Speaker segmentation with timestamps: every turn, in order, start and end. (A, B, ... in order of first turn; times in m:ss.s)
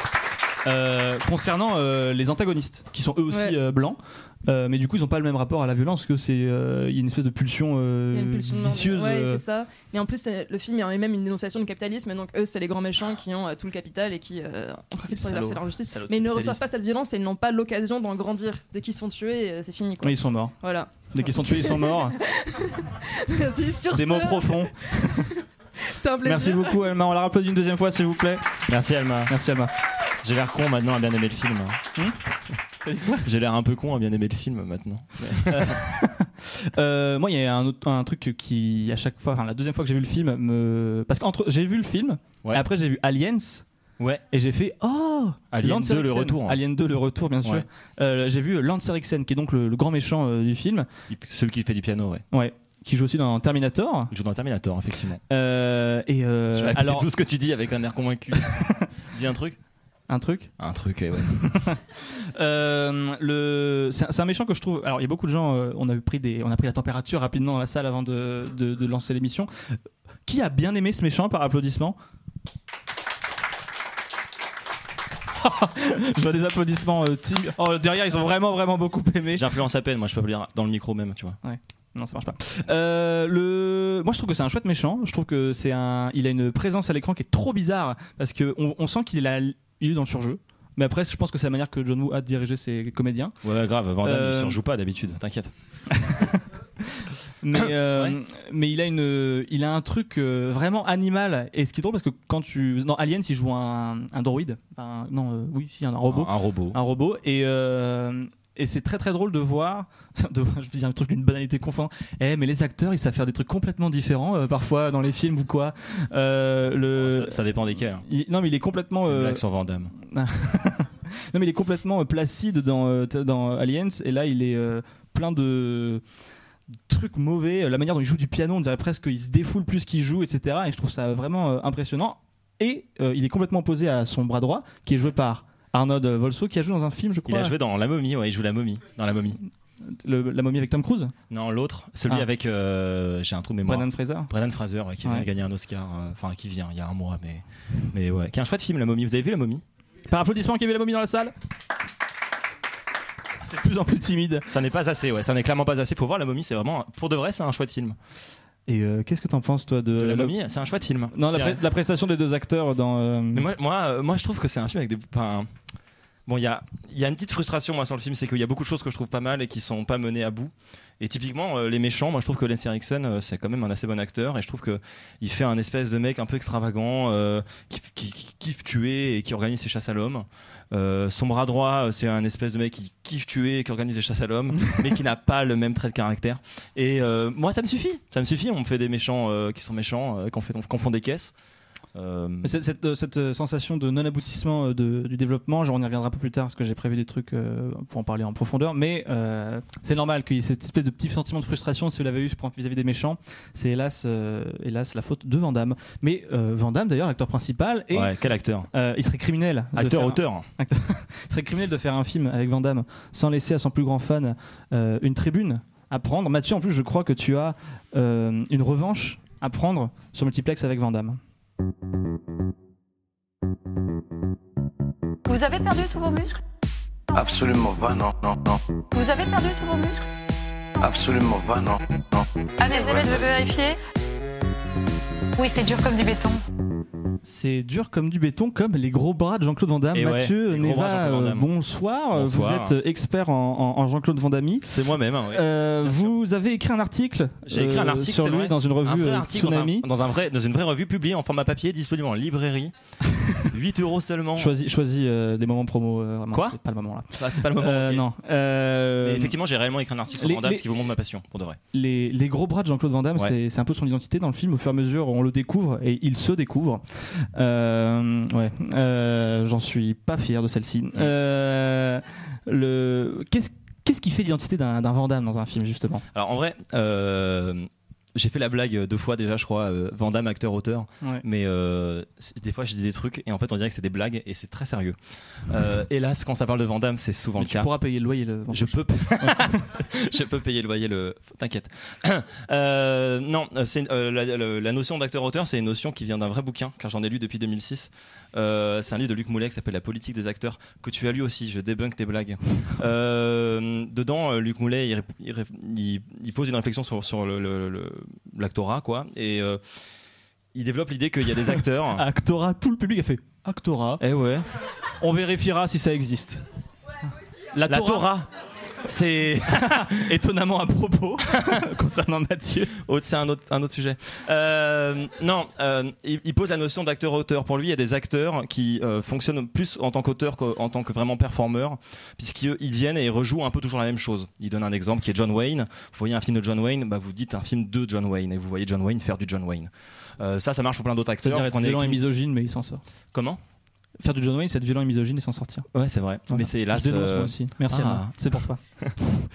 0:00.6-0:09.4 A
0:03.3-0:03.6 B
0:08.1-0:26.8 B
0:15.1-0:16.6 A
0:20.0-0:20.6 A
0:21.1-0:22.2 A
0:23.9-0:25.3 A
0:26.2-0:28.6 A
0:28.7-0:29.3 C
0:29.3-0:29.7 A
0:30.2-0:31.8 C
0:32.8-0:33.3 A
0:33.2-0:35.8 C
0:35.2-0:43.6 A
0:44.3-0:50.9 A
0:45.5-0:46.6 C
0:51.1-0:52.2 C
0:52.3-0:54.1 A
0:54.1-0:55.2 C
0:55.3-0:57.1 A
0:56.5-0:59.6 C
0:58.6-0:58.8 A
1:00.1-1:00.5 A
1:00.6-1:01.5 C
1:01.4-1:01.8 A
1:02.4-1:12.0 A
1:15.4-1:19.5 A
1:19.3-1:21.4 C
1:21.4-1:33.4 A
1:33.4-1:35.5 C
1:34.0-1:34.6 A
1:35.9-1:59.4 A
1:37.9-1:38.2 C
1:46.1-1:46.8 C
1:57.0-1:58.0 C
1:59.0-1:59.9 C
2:00.0-2:06.0 A
2:06.9-2:17.6 A
2:17.3-2:19.4 C
2:19.8-2:21.1 A
2:21.3-2:29.6 C
2:23.6-2:24.3 A
2:25.0-2:25.3 A
2:30.1-2:31.3 A
2:33.4-2:34.5 A
2:34.5-2:38.0 C
2:38.7-2:40.4 A
2:40.0-2:41.6 C
2:41.1-2:43.5 A
2:43.3-2:45.5 C
2:46.3-3:11.3 C
3:04.5-3:05.0 A
3:12.0-3:12.6 C
3:12.4-3:28.2 A
3:27.9-3:28.7 C
3:28.7-3:41.2 A
3:29.7-3:30.5 C
3:45.3-3:46.4 D
3:47.1-3:48.6 E
3:48.9-3:50.0 D
3:50.8-3:52.2 E
3:52.6-3:53.8 D
3:52.9-3:53.3 E
3:55.4-3:56.4 D
3:57.2-4:04.7 A
3:59.9-4:01.5 C
4:02.1-4:02.8 C
4:04.6-4:06.1 C
4:05.3-4:09.9 A
4:07.5-4:12.7 C
4:13.4-4:14.5 C
4:14.4-4:19.4 A
4:16.3-4:16.6 C
4:17.1-4:18.0 C
4:19.0-4:21.6 C
4:20.1-4:20.6 A
4:21.7-4:36.0 A
4:36.1-4:45.0 C
4:45.5-4:47.7 C
4:47.4-4:49.6 A
4:48.5-5:09.6 C
5:10.5-5:12.0 C
5:11.5-5:14.0 A
5:14.0-5:14.5 C
5:15.0-5:16.4 A
5:17.6-5:18.1 A
5:17.7-5:18.3 C
5:18.8-5:20.0 C
5:19.6-5:22.7 A
5:22.8-5:42.0 C
5:41.2-5:42.8 A
5:43.1-5:43.4 C
5:44.0-5:45.7 A
5:45.7-5:48.8 C
5:46.3-5:48.6 A